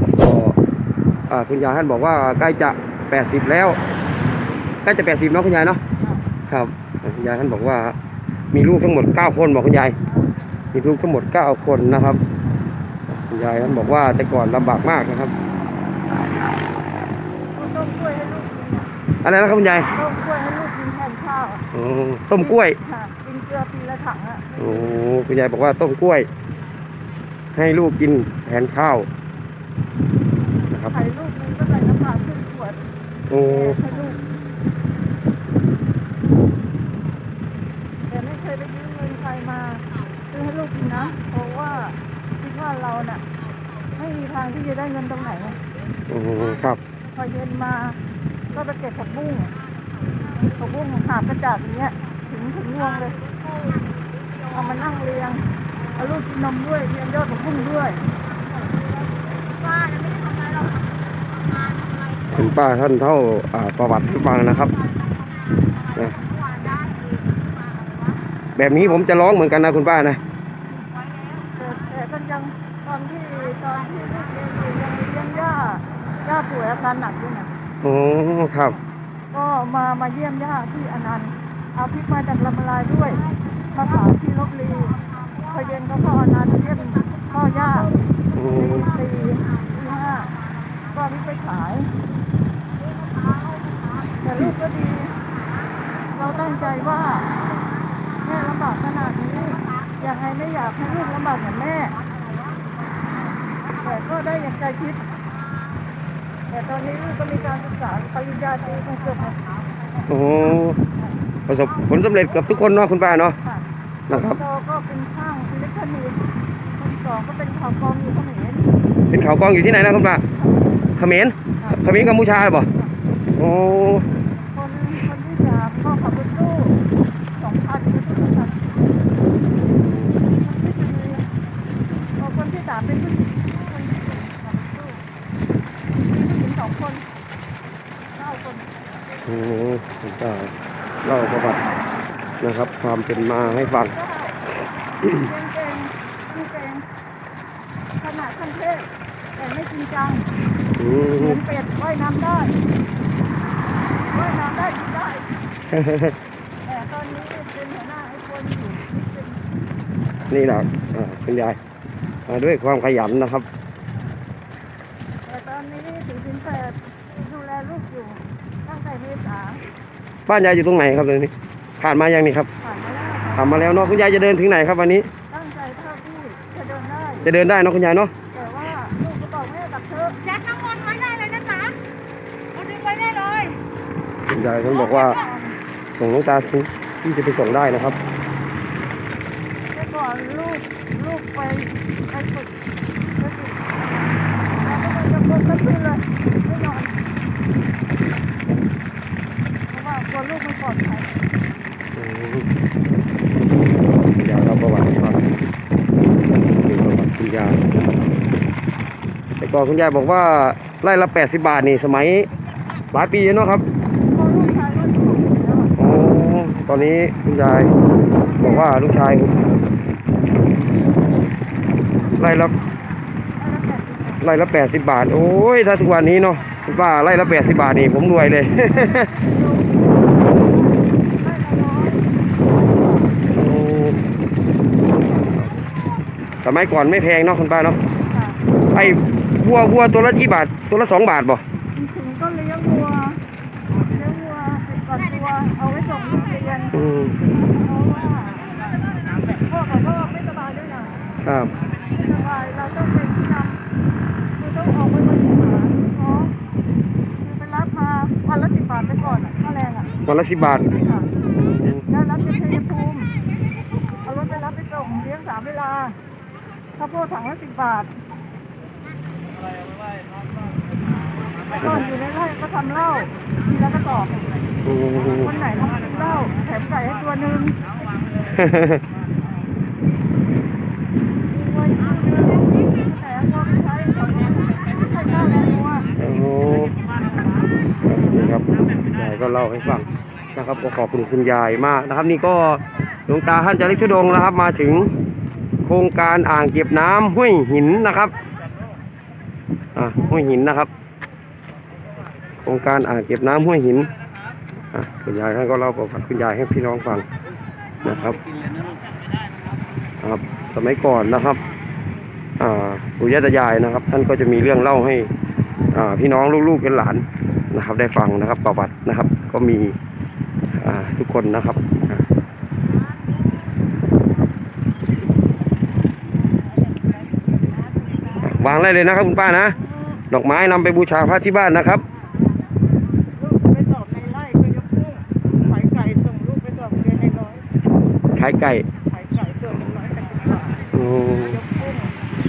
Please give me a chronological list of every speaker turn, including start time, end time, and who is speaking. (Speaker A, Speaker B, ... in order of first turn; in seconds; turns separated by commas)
Speaker A: 0.2-0.6, Speaker A: 1.3-3.8, Speaker A: 4.8-5.8, Speaker A: 6.5-8.0, Speaker A: 8.5-9.9, Speaker A: 10.7-12.2, Speaker A: 13.1-15.3, Speaker B: 17.5-18.9, Speaker A: 19.2-19.9, Speaker B: 19.9-21.7, Speaker A: 21.7-22.8, Speaker B: 22.4-24.9, Speaker A: 24.6-26.3, Speaker A: 27.5-29.1, Speaker A: 30.7-31.0, Speaker B: 30.9-32.8, Speaker A: 33.3-33.8, Speaker B: 33.4-34.2, Speaker B: 38.1-43.2, Speaker B: 44.0-45.6, Speaker A: 46.1-46.8, Speaker B: 47.1-48.0, Speaker B: 48.5-49.5, Speaker B: 50.2-53.2, Speaker B: 54.5-58.1, Speaker C: 59.8-60.8, Speaker A: 62.3-64.8, Speaker C: 66.3-67.2, Speaker C: 67.7-68.1, Speaker A: 68.6-70.2, Speaker B: 71.3-77.5, Speaker A: 77.8-78.8, Speaker B: 79.3-90.4, Speaker A: 88.3-89.0, Speaker B: 90.9-91.9, Speaker B: 94.2-95.2, Speaker B: 96.1-97.3, Speaker B: 98.2-102.0, Speaker B: 103.7-105.0, Speaker B: 106.5-110.0, Speaker A: 110.1-110.8, Speaker A: 111.5-113.3, Speaker B: 112.2-118.7, Speaker A: 114.1-114.4, Speaker A: 119.1-120.2, Speaker B: 120.4-120.8, Speaker A: 121.0-122.7, Speaker B: 121.6-122.9, Speaker A: 123.4-124.1, Speaker B: 124.5-126.8, Speaker B: 127.4-128.8, Speaker A: 129.7-130.2, Speaker B: 130.3-131.3, Speaker B: 132.2-135.0, Speaker B: 136.0-137.1, Speaker B: 138.2-138.8, Speaker A: 139.2-141.7, Speaker A: 142.4-143.9, Speaker B: 143.4-144.4, Speaker A: 145.0-145.3, Speaker B: 145.1-146.9, Speaker B: 148.0-150.3, Speaker A: 150.8-151.4, Speaker B: 151.2-152.6, Speaker B: 154.1-155.3, Speaker A: 155.7-156.2, Speaker B: 156.7-159.5, Speaker A: 160.3-161.6, Speaker A: 162.3-163.5, Speaker B: 165.3-169.7, Speaker A: 170.3-172.5, Speaker B: 172.6-173.7, Speaker A: 173.3-175.1, Speaker B: 175.3-177.3, Speaker A: 177.2-178.1, Speaker B: 178.3-180.4, Speaker C: 180.4-181.7, Speaker C: 182.7-183.5, Speaker A: 184.3-185.2, Speaker B: 184.7-185.6, Speaker A: 185.9-188.0, Speaker B: 189.7-192.5, Speaker B: 193.2-193.7, Speaker B: 194.6-197.0, Speaker B: 199.7-201.2, Speaker A: 201.9-202.5, Speaker A: 204.0-205.3, Speaker A: 206.4-207.8, Speaker A: 209.4-212.3, Speaker A: 212.9-213.7, Speaker B: 214.1-215.8, Speaker A: 215.8-217.7, Speaker A: 218.3-219.5, Speaker B: 218.3-218.7, Speaker A: 222.2-222.5, Speaker B: 223.4-224.2, Speaker A: 224.2-229.1, Speaker B: 228.8-233.1, Speaker A: 233.3-234.0, Speaker A: 236.4-237.8, Speaker B: 238.1-238.9, Speaker A: 238.7-241.4, Speaker B: 241.7-243.2, Speaker B: 243.7-246.8, Speaker A: 246.7-247.2, Speaker B: 247.3-251.0, Speaker A: 251.2-251.5, Speaker B: 251.9-253.6, Speaker B: 254.4-256.4, Speaker B: 257.2-259.9, Speaker A: 260.1-260.7, Speaker B: 260.6-261.1, Speaker A: 261.4-261.8, Speaker B: 261.9-263.1, Speaker B: 264.1-266.0, Speaker B: 266.8-267.9, Speaker B: 271.6-274.4, Speaker A: 274.6-275.3, Speaker B: 275.0-277.6, Speaker A: 278.3-278.8, Speaker B: 281.3-285.9, Speaker A: 286.0-286.7, Speaker A: 287.8-294.9, Speaker A: 295.6-298.1, Speaker A: 299.8-300.7, Speaker A: 302.4-303.9, Speaker A: 304.7-307.1, Speaker A: 307.8-308.2, Speaker A: 310.0-311.4, Speaker A: 312.4-315.1, Speaker A: 315.7-319.8, Speaker A: 320.5-322.1, Speaker A: 328.2-329.6, Speaker A: 330.1-331.8, Speaker B: 333.2-337.4, Speaker A: 338.2-338.6, Speaker B: 338.9-341.9, Speaker A: 340.7-341.4